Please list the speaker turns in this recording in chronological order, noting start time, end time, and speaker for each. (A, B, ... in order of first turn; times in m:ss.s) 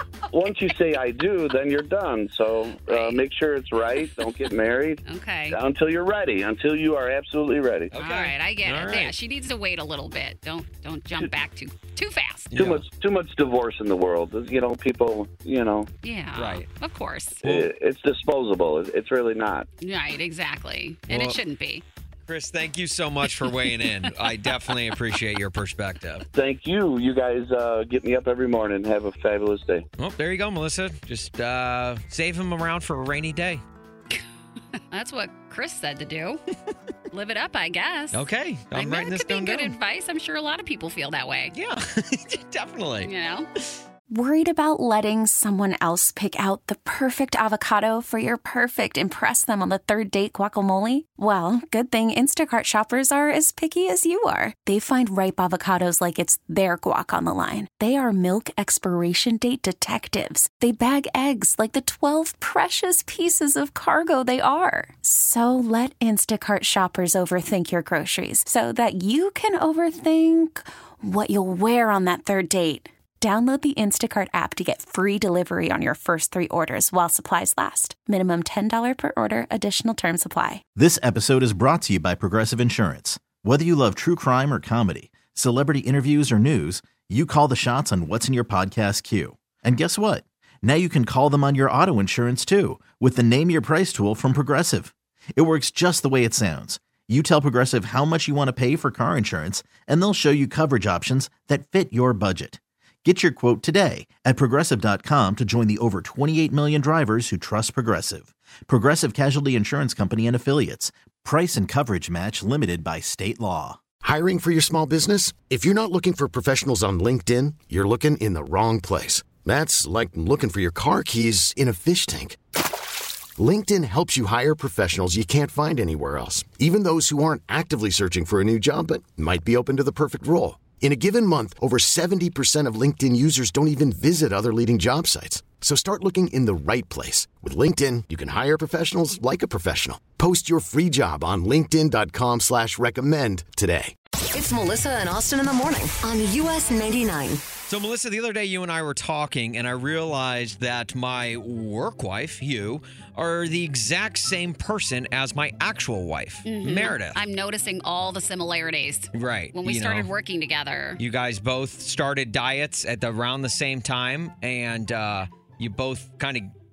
0:00.3-0:07.9 A
0:02.9-0:03.2 B
0:05.0-0:05.6 B
0:07.9-0:09.1 C
0:08.0-0:12.5 B
0:12.5-0:12.8 C
0:12.6-0:15.9 A
0:16.0-0:17.4 B
0:16.4-0:16.6 C
0:17.4-0:19.7 A
0:19.8-0:21.8 B
0:21.1-0:21.4 C
0:22.3-0:26.2 C
0:26.4-0:29.9 A
0:30.0-0:33.6 C
0:34.9-0:36.4 B
0:37.1-0:38.2 B
0:38.1-0:39.8 C
0:38.7-0:41.5 B
0:41.5-0:43.1 C
0:43.0-0:43.5 B
0:44.1-1:20.6 D
1:20.8-1:53.8 E
1:54.0-2:02.4 F
2:03.4-2:23.9 F
2:24.3-2:27.4 G
2:27.7-2:37.2 C
2:36.4-2:41.0 B
2:39.1-2:40.1 C
2:41.0-2:46.5 C